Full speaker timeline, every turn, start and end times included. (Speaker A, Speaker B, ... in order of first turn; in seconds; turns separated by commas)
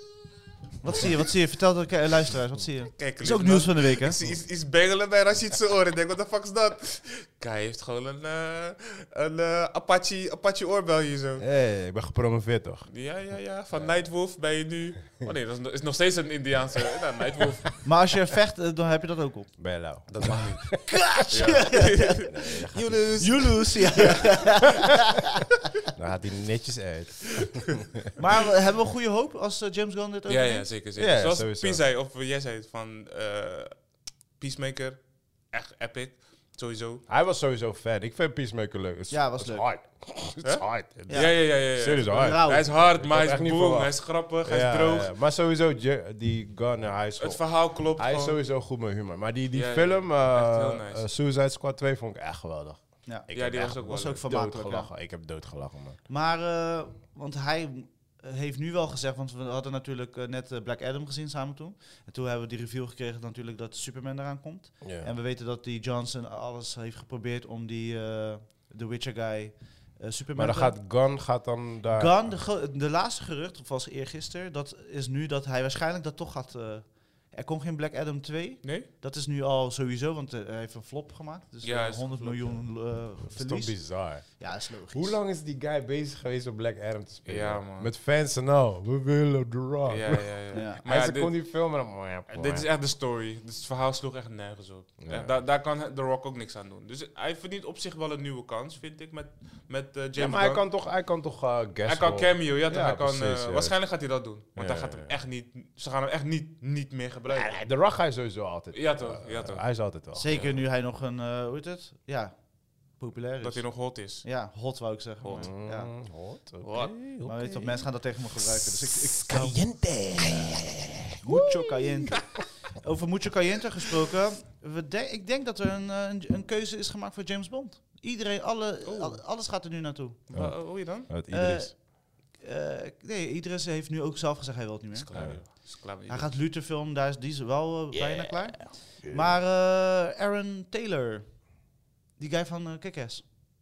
Speaker A: 0.8-4.2, Speaker B: 3.0-11.4, Speaker C: 11.4-12.9, Speaker B: 12.9-18.1, Speaker C: 13.7-14.1, Speaker A: 17.8-19.9, Speaker C: 19.6-23.5, Speaker B: 20.1-23.8, Speaker A: 20.9-25.2, Speaker C: 25.9-27.9, Speaker A: 28.2-30.7, Speaker B: 30.3-37.0, Speaker C: 30.9-31.8, Speaker C: 37.1-56.0, Speaker A: 39.1-39.7, Speaker B: 40.4-45.1, Speaker A: 41.1-42.7, Speaker B: 47.2-48.4, Speaker B: 49.5-51.0, Speaker A: 53.0-54.9, Speaker B: 53.3-54.2, Speaker A: 56.1-70.8, Speaker C: 64.8-65.1, Speaker C: 70.3-72.4, Speaker A: 71.9-85.2, Speaker B: 78.6-78.9, Speaker B: 81.6-82.7, Speaker C: 83.2-92.7, Speaker B: 87.2-87.9, Speaker B: 89.8-100.7, Speaker A: 90.5-90.8, Speaker C: 95.0-95.4, Speaker C: 100.2-105.1, Speaker B: 101.8-107.6, Speaker C: 107.3-110.3, Speaker B: 108.7-110.5, Speaker A: 110.1-115.9, Speaker B: 113.4-114.3, Speaker B: 115.2-115.5, Speaker C: 115.2-122.3, Speaker B: 116.6-117.2, Speaker A: 117.2-120.4, Speaker A: 121.1-130.4, Speaker B: 128.8-129.2, Speaker B: 130.3-131.1, Speaker C: 130.3-131.8, Speaker A: 131.3-141.5, Speaker B: 134.9-136.3, Speaker C: 135.1-135.4, Speaker C: 138.6-139.3, Speaker A: 142.2-143.2